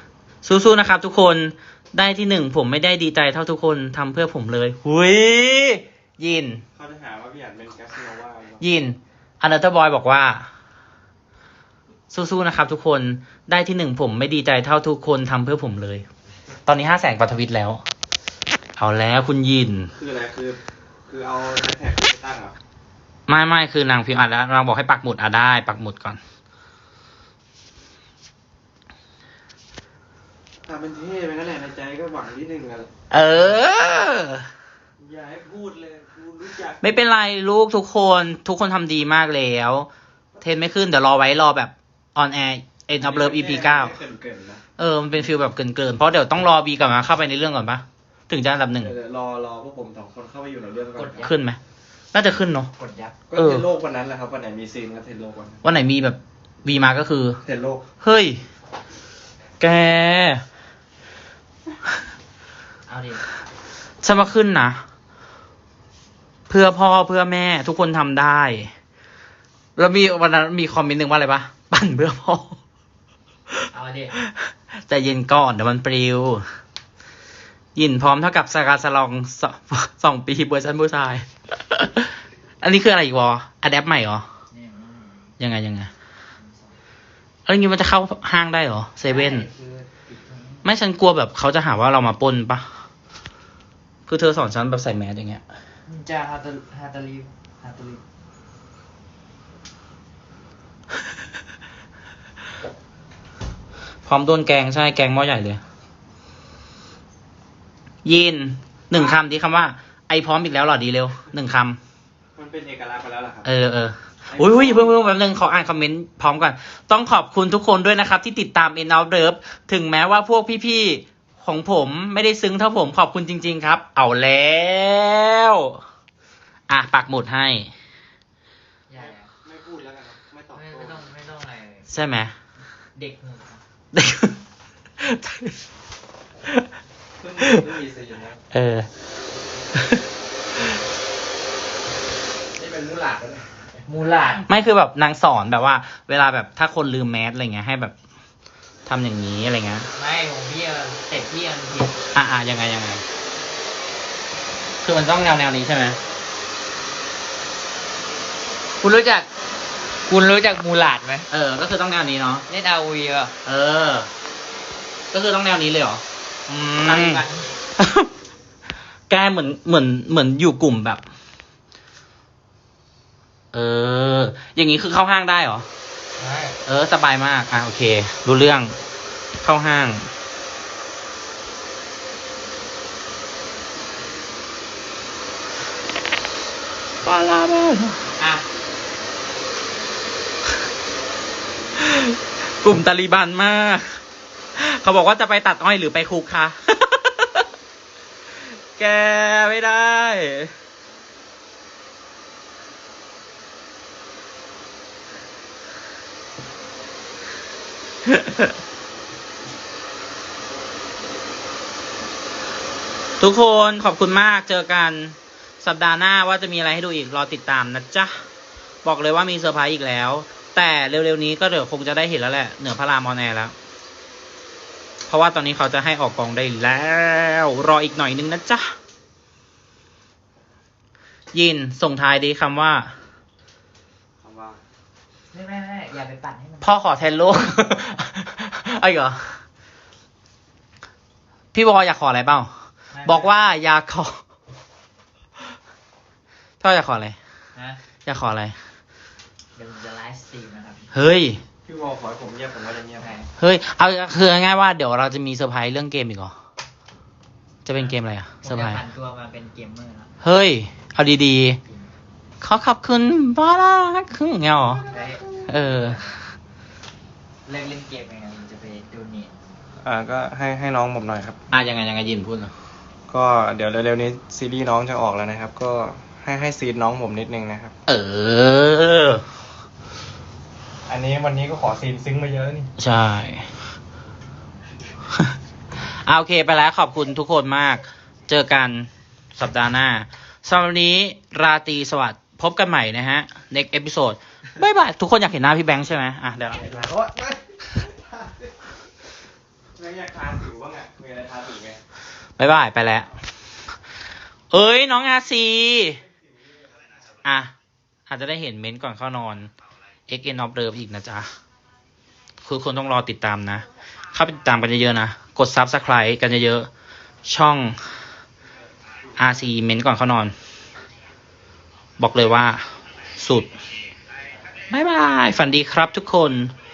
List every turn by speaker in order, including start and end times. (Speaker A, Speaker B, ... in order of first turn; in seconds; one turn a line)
Speaker A: 0.4-6.6
Speaker B: 6.8-8.7
Speaker A: 8.6-10.5
Speaker A: 12.1-16.1
Speaker A: 16.7-17.8
Speaker A: 18.8-19.9
Speaker B: 20.0-22.6
Speaker A: 23.3-26.2
Speaker B: 30.6-32.9
Speaker A: 33.1-34.5
Speaker B: 35.0-36.9
Speaker A: 36.8-39.9
Speaker A: 40.4-44.0
Speaker B: 43.0-44.6
Speaker A: 44.8-49.0
Speaker B: 48.8-51.3
Speaker C: 51.0-51.4
Speaker A: 51.2-51.6
Speaker A: 52.1-52.7
Speaker C: 52.8-53.2
Speaker B: 53.3-55.6
Speaker A: 53.3-53.7
Speaker A: 55.6-57.4
Speaker B: 57.4-57.8
Speaker A: 58.0-58.4
Speaker A: 59.6-60.4
Speaker C: 62.9-63.2
Speaker A: 64.0-64.8
Speaker A: 66.5-68.7
Speaker A: 69.8-72.6
Speaker C: 73.7-74.2
Speaker A: 74.9-76.5
Speaker A: 77.8-84.3
Speaker C: 84.5-85.3
Speaker A: 85.4-85.9
Speaker C: 86.4-86.8
Speaker A: 87.5-89.5
Speaker C: 89.0-90.7
Speaker A: 90.6-92.7
Speaker A: 94.1-95.4
Speaker C: 95.9-98.0
Speaker A: 104.1-105.6
Speaker A: 108.0-111.8
Speaker B: 112.4-113.5
Speaker A: 113.4-125.8
Speaker B: 114.3-115.0
Speaker A: 126.7-127.7
Speaker C: 128.9-129.3
Speaker B: 128.9-131.1
Speaker C: 130.6-131.9
Speaker A: 131.9-132.3
Speaker C: 132.9-133.6
Speaker A: 133.9-134.4
Speaker A: 135.0-135.6
Speaker B: 137.2-138.4
Speaker A: 137.4-137.7
Speaker A: 138.5-138.9
Speaker B: 142.6-143.8
Speaker C: 143.8-144.5
Speaker A: 144.2-147.9
Speaker A: 148.9-149.9
Speaker C: 149.9-152.0
Speaker A: 152.1-153.0
Speaker A: 154.8-156.0
Speaker C: 158.8-159.3
Speaker C: 160.1-161.3
Speaker A: 161.3-162.5
Speaker C: 162.5-163.3
Speaker A: 163.4-164.1
Speaker A: 165.1-167.2
Speaker C: 166.8-167.5
Speaker A: 167.8-168.1
Speaker A: 169.1-171.0
Speaker A: 173.5-175.7
Speaker C: 176.2-176.6
Speaker A: 176.7-178.8
Speaker A: 179.4-180.1
Speaker A: 187.0-188.1
Speaker C: 188.2-188.4
Speaker A: 191.8-194.0
Speaker A: 194.6-197.5
Speaker A: 198.4-200.5
Speaker A: 208.1-208.5
Speaker A: 213.2-218.2
Speaker A: 218.8-223.5
Speaker A: 225.1-228.7
Speaker A: 231.3-232.9
Speaker B: 234.2-234.6
Speaker C: 235.3-236.8
Speaker A: 236.6-239.4
Speaker A: 241.5-242.5
Speaker C: 242.9-243.3
Speaker A: 243.1-244.2
Speaker A: 246.6-247.2
Speaker C: 247.6-247.8
Speaker A: 248.1-248.6
Speaker C: 249.6-250.9
Speaker A: 250.9-251.4
Speaker B: 251.7-253.1
Speaker C: 253.0-253.3
Speaker A: 253.4-256.3
Speaker A: 257.6-258.8
Speaker C: 258.4-260.1
Speaker A: 260.2-261.6
Speaker C: 261.7-261.9
Speaker A: 262.4-264.9
Speaker C: 264.9-266.1
Speaker A: 265.4-266.0
Speaker C: 267.5-269.4
Speaker B: 269.8-271.4
Speaker A: 271.5-272.5
Speaker B: 273.1-277.7
Speaker A: 277.9-279.2
Speaker B: 280.9-282.7
Speaker A: 282.8-283.5
Speaker A: 285.2-296.7
Speaker B: 296.5-298.1
Speaker B: 299.8-301.8
Speaker A: 302.4-303.1
Speaker A: 304.5-306.0
Speaker A: 307.2-307.5
Speaker A: 308.1-309.5
Speaker A: 310.1-311.3
Speaker A: 312.4-316.7
Speaker A: 317.3-317.8
Speaker A: 319.2-320.3
Speaker A: 322.0-323.5
Speaker A: 324.7-326.6